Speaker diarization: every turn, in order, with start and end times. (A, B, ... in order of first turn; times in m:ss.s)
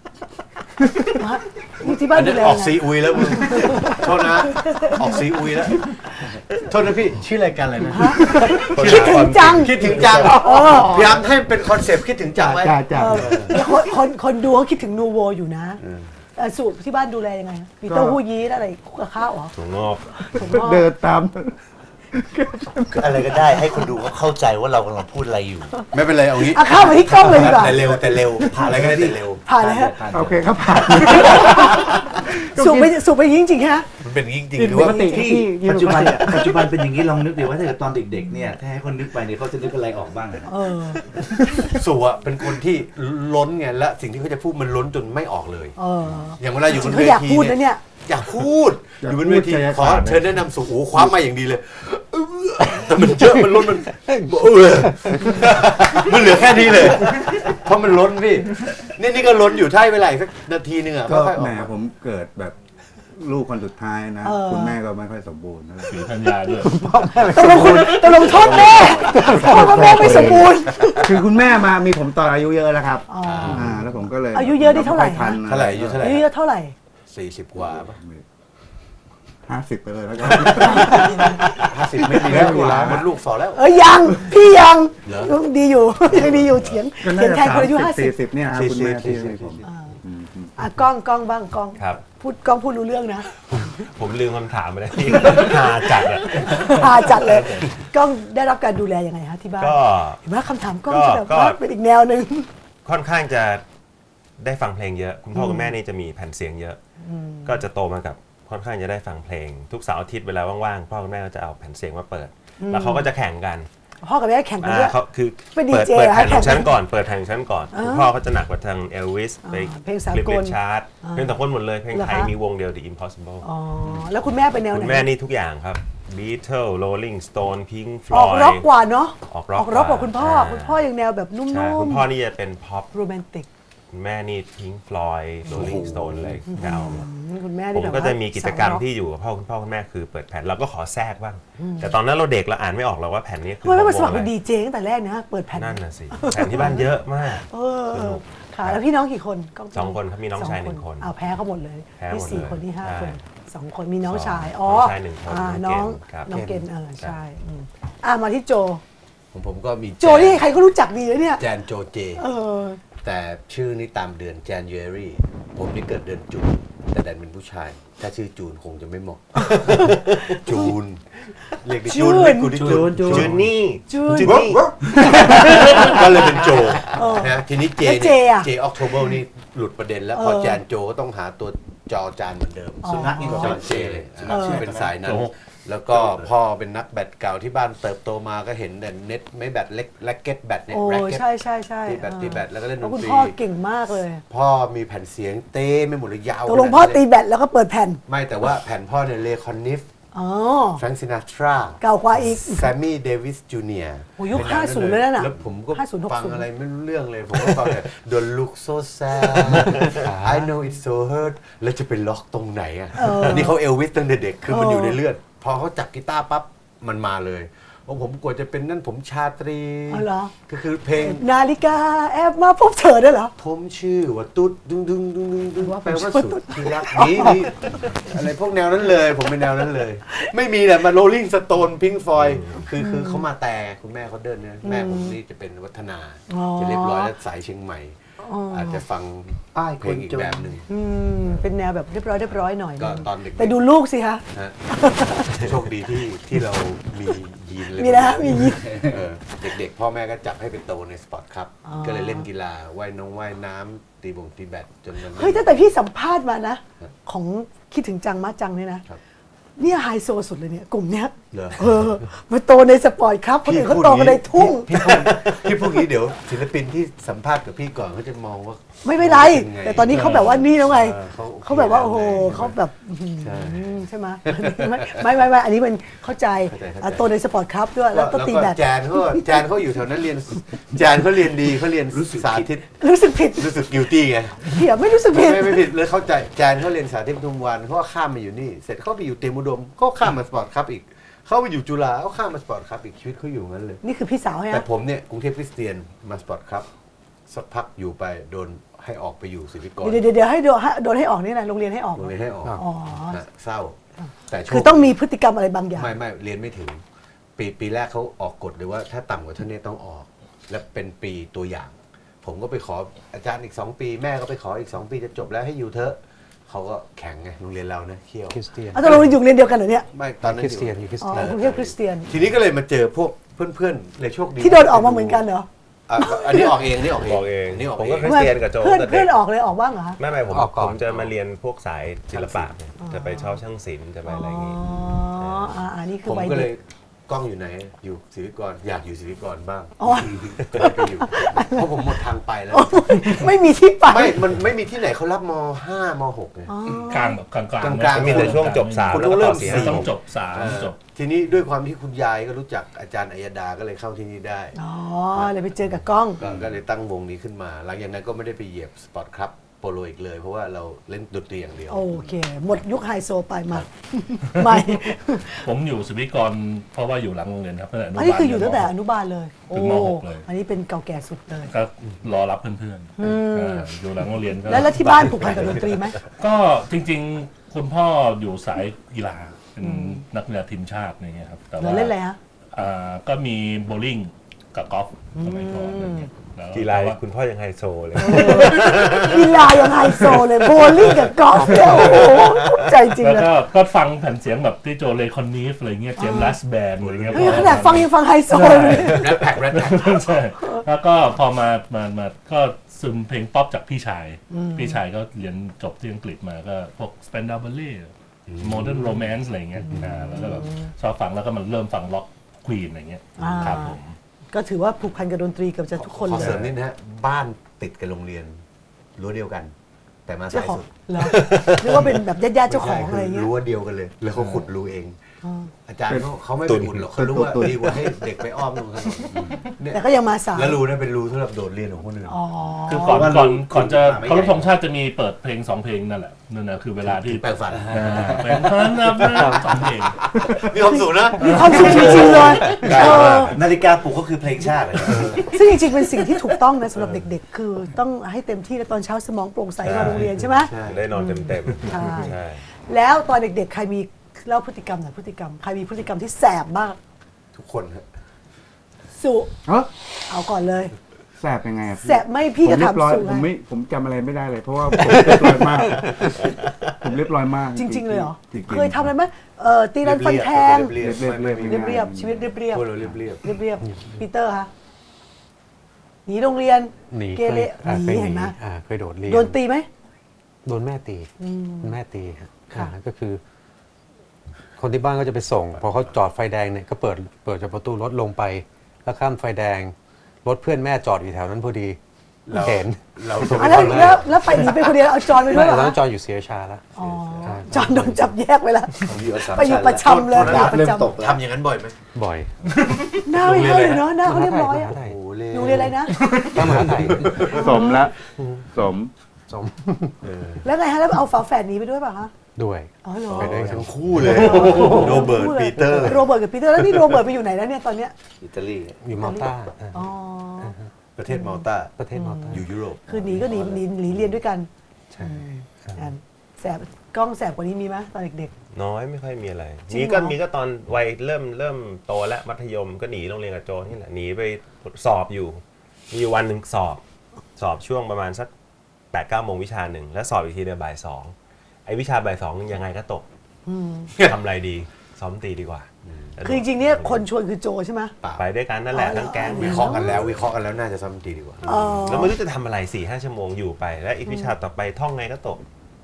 0:01.2-0:05.2 A
0:01.8-0:13.6 B
0:07.9-0:11.1 A
0:08.3-0:10.7 C
0:10.2-0:11.1 D
0:12.4-0:13.6 D
0:12.9-0:15.8 A
0:15.8-0:16.1 B
0:16.4-0:19.5 A
0:17.9-0:18.2 D
0:19.5-0:20.3 C
0:20.2-0:20.9 A
0:20.2-0:21.6 D
0:22.1-0:23.8 D
0:22.9-0:25.8 E
0:25.9-0:29.4 B
0:26.4-0:27.8 A
0:28.4-0:31.0 E
0:29.4-0:29.9 A
0:30.1-0:33.0 D
0:31.2-0:31.6 A
0:31.5-0:31.9 B
0:32.5-0:33.9 A
0:34.0-0:35.1 B
0:34.5-0:36.7 D
0:34.8-0:35.4 A
0:35.0-0:40.5 E
0:40.4-0:41.0 A
0:41.5-0:45.8 B
0:45.8-0:47.8 A
0:46.3-1:01.7 B
0:49.0-0:50.2 D
1:01.0-1:02.6 D
1:03.1-1:16.1 D
1:04.2-1:04.8 A
1:05.9-1:06.8 F
1:07.1-1:11.2 A
1:09.8-1:10.3 B
1:13.1-1:13.7 A
1:13.2-1:14.0 B
1:14.3-1:15.4 A
1:15.4-1:16.3 B
1:16.0-1:16.7 A
1:17.1-1:18.0 B
1:17.6-1:18.2 D
1:19.4-1:23.1 D
1:20.2-1:23.6 B
1:20.6-1:21.4 A
1:23.5-1:28.1 A
1:25.0-1:25.3 B
1:27.0-1:30.5 D
1:28.5-1:29.6 B
1:29.6-1:30.0 A
1:30.6-1:33.3 A
1:31.8-1:32.0 C
1:33.5-1:37.2 C
1:35.2-1:42.5 A
1:36.6-1:37.7 F
1:39.6-1:40.2 C
1:40.8-1:41.6 C
1:42.8-1:43.6 C
1:44.4-1:46.8 C
1:45.3-1:45.7 A
1:47.0-1:47.6 A
1:47.4-1:53.7 C
1:52.6-1:53.1 A
1:54.0-1:55.0 A
1:54.6-2:04.1 C
1:55.5-1:56.8 A
1:57.7-1:58.1 A
1:59.4-2:02.3 A
2:03.4-2:05.1 A
2:04.7-2:08.7 C
2:08.1-2:12.1 A
2:09.2-2:10.8 C
2:11.5-2:12.9 C
2:12.9-2:13.5 A
2:13.9-2:17.1 C
2:15.5-2:16.3 D
2:16.5-2:18.8 A
2:17.7-2:24.3 C
2:21.6-2:21.9 A
2:23.6-2:38.8 A
2:25.5-2:28.8 C
2:29.7-2:31.1 C
2:32.0-2:33.2 C
2:34.0-2:36.4 C
2:36.3-2:36.6 G
2:39.3-2:40.5 B
2:40.0-2:41.5 A
2:41.4-2:42.2 B
2:42.2-2:42.8 A
2:43.0-2:53.4 B
2:49.5-2:50.7 A
2:51.8-2:52.8 A
2:52.5-2:53.4 E
2:52.8-2:55.9 C
2:53.9-2:54.4 A
2:54.2-3:11.3 B
2:54.4-2:55.6 D
2:55.4-2:55.9 A
2:56.9-2:58.5 A
3:00.1-3:00.6 A
3:02.8-3:03.6 A
3:02.8-3:05.0 E
3:04.3-3:04.6 A
3:05.0-3:05.3 F
3:05.9-3:06.3 E
3:10.7-3:14.2 A
3:11.8-3:13.4 B
3:14.3-3:17.0 B
3:16.4-3:18.0 A
3:18.0-3:19.8 B
3:20.1-3:20.8 A
3:20.8-3:41.2 B
3:21.8-3:22.7 A
3:24.2-3:26.4 A
3:29.6-3:30.5 G
3:33.0-3:33.6 A
3:34.5-3:35.0 A
3:39.9-3:40.3 A
3:41.0-3:43.3 A
3:43.4-3:58.0 B
3:45.6-3:47.8 A
3:52.2-3:52.6 C
3:52.8-3:53.2 A
3:54.6-3:55.1 A
3:56.3-3:57.1 A
3:58.2-3:58.8 A
3:58.5-4:00.7 B
3:59.5-4:00.6 E
4:00.7-4:05.5 A
4:02.8-4:03.6 B
4:04.3-4:15.6 B
4:07.7-4:08.9 A
4:11.6-4:12.2 A
4:15.0-4:18.8 A
4:19.6-4:25.1 A
4:21.3-4:21.7 B
4:23.4-4:32.6 B
4:28.8-4:39.4 A
4:29.8-4:30.4 F
4:33.2-4:35.1 B
4:36.4-4:37.1 B
4:37.9-4:42.7 B
4:41.9-4:42.6 E
4:42.8-4:43.7 A
4:43.2-4:53.8 B
4:44.4-4:45.7 A
4:53.8-4:54.6 A
4:54.5-4:56.7 B
4:57.3-5:00.0 B
4:59.8-5:03.2 A
5:01.9-5:03.8 B
5:04.0-5:05.9 A
5:04.3-5:05.0 B
5:05.7-5:06.8 B
5:07.4-5:19.0 B
5:18.3-5:19.1 G
5:18.7-5:19.9 A
5:19.9-5:25.2 B
5:20.2-5:21.2 G
5:21.0-5:22.1 A
5:24.4-5:26.7 A
5:25.9-5:28.2 B
5:27.0-5:29.1 C
5:28.0-5:30.0 A
5:30.0-5:34.6 C
5:30.2-5:31.1 G
5:32.1-5:32.5 B
5:32.8-5:33.4 A
5:34.0-5:36.5 A
5:35.1-5:35.6 C
5:36.0-5:43.3 B
5:39.8-5:41.7 A
5:42.5-5:44.2 A
5:43.8-5:46.5 B
5:46.5-5:47.2 A
5:46.9-5:50.8 F
5:47.6-5:54.6 B
5:47.9-5:49.8 C
5:54.5-5:56.2 A
5:56.1-6:02.1 B
6:01.7-6:05.5 A
6:04.2-6:04.8 F
6:05.4-6:08.7 F
6:07.9-6:11.5 A
6:09.5-6:10.2 F
6:11.4-6:22.0 F
6:13.0-6:13.7 A
6:14.4-6:16.0 A
6:19.6-6:20.0 A
6:21.6-6:22.2 A
6:22.5-6:27.0 F
6:25.1-6:26.1 A
6:26.5-6:30.1 C
6:28.0-6:33.3 A
6:30.6-6:30.9 C
6:31.6-6:32.0 F
6:31.8-6:32.6 C
6:33.0-6:54.0 F
6:36.0-6:36.4 A
6:36.8-6:37.7 B
6:37.1-6:39.3 A
6:38.7-6:40.2 B
6:40.4-6:40.6 A
6:44.3-6:44.8 A
6:48.3-6:49.0 B
6:49.7-6:50.7 A
6:53.2-6:53.8 A
6:53.2-6:53.5 B
6:54.3-6:56.5 A
6:55.8-6:58.4 B
6:56.1-6:56.5 F
6:59.0-6:59.5 B
7:00.0-7:05.0 B
7:00.3-7:03.3 A
7:01.0-7:01.9 C
7:05.2-7:05.5 A
7:05.6-7:12.2 B
7:05.9-7:06.1 D
7:06.4-7:06.9 C
7:06.8-7:07.9 D
7:09.1-7:09.4 E
7:09.7-7:10.6 A
7:12.0-7:13.0 A
7:12.6-7:20.0 F
7:12.7-7:14.5 E
7:16.8-7:18.2 B
7:17.5-7:18.6 E
7:19.0-7:23.5 B
7:19.1-7:19.5 G
7:21.1-7:21.6 F
7:21.2-7:23.4 A
7:21.6-7:22.2 C
7:21.6-7:25.4 E
7:24.8-7:25.2 B
7:25.3-7:36.8 A
7:29.6-7:32.4 C
7:29.8-7:30.8 B
7:37.3-7:37.8 B
7:38.9-7:39.3 A
7:39.4-7:39.7 D
7:40.1-7:40.7 A
7:41.2-7:48.9 D
7:41.8-7:43.3 A
7:47.5-7:50.7 A
7:49.8-7:51.8 B
7:50.7-7:52.3 D
7:51.4-7:54.5 A
7:52.5-7:53.2 B
7:56.0-7:58.4 A
7:56.9-7:59.4 G
7:59.0-7:59.7 A
8:00.4-8:01.1 G
8:01.2-8:01.8 A
8:01.6-8:03.2 G
8:04.6-8:11.8 G
8:12.2-8:14.5 B
8:12.3-8:18.1 G
8:13.2-8:15.8 A
8:16.8-8:20.9 A
8:16.9-8:17.8 B
8:18.9-8:21.2 E
8:19.8-8:21.8 B
8:21.9-8:22.4 G
8:23.0-8:24.7 A
8:23.1-8:23.9 B
8:24.0-8:27.3 G
8:24.7-8:27.7 B
8:25.3-8:26.0 A
8:27.2-8:28.9 D
8:27.2-8:27.8 A
8:29.3-8:30.0 G
8:30.0-8:30.4 B
8:30.4-8:32.1 A
8:32.4-8:34.6 G
8:32.8-8:33.4 A
8:33.1-8:37.0 B
8:34.0-8:37.9 A
8:38.2-8:38.8 E
8:38.8-8:39.8 G
8:39.0-8:40.6 A
8:40.4-8:40.7 G
8:40.9-8:41.7 B
8:41.1-8:48.3 A
8:41.8-8:42.4 G
8:42.2-8:43.1 B
8:43.0-8:43.6 E
8:44.9-8:45.2 B
8:45.6-8:45.9 G
8:48.5-8:56.8 C
8:49.7-8:50.2 A
8:57.4-8:58.3 C
8:58.9-9:01.1 C
9:01.6-9:03.0 C
9:03.4-9:03.9 A
9:03.9-9:04.2 B
9:04.0-9:07.1 C
9:05.8-9:06.1 B
9:06.2-9:07.9 A
9:08.2-9:10.1 C
9:08.7-9:10.0 A
9:09.3-9:12.1 B
9:11.4-9:12.2 A
9:11.8-9:15.4 C
9:14.0-9:14.3 A